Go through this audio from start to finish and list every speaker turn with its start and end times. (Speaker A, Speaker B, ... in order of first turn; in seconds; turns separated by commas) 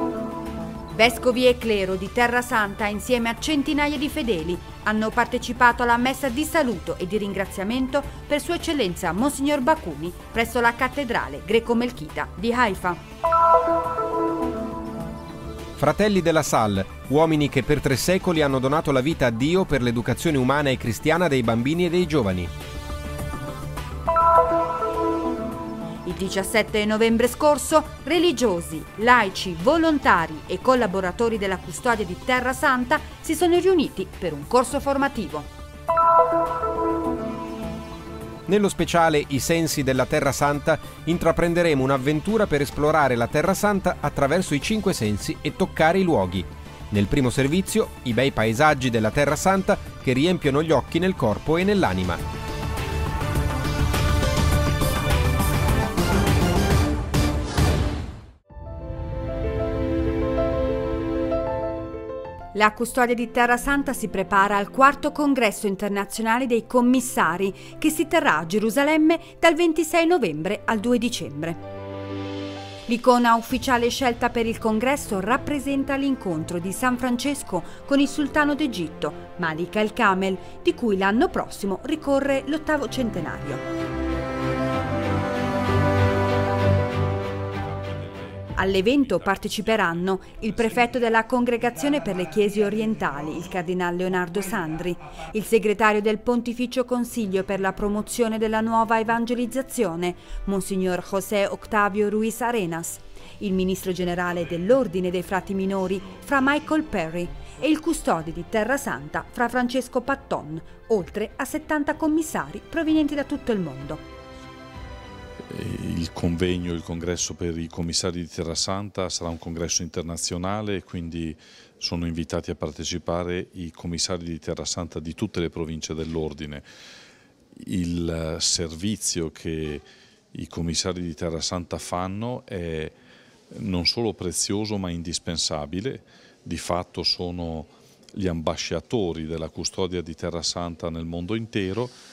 Speaker A: 0.9-13.0, Speaker B: 15.8-22.5, Speaker A: 26.1-35.5, Speaker B: 38.5-52.2, Speaker A: 62.5-71.6, Speaker A: 72.9-83.7, Speaker A: 88.6-114.0, Speaker C: 115.5-126.6, Speaker C: 127.6-132.9, Speaker C: 133.5-141.9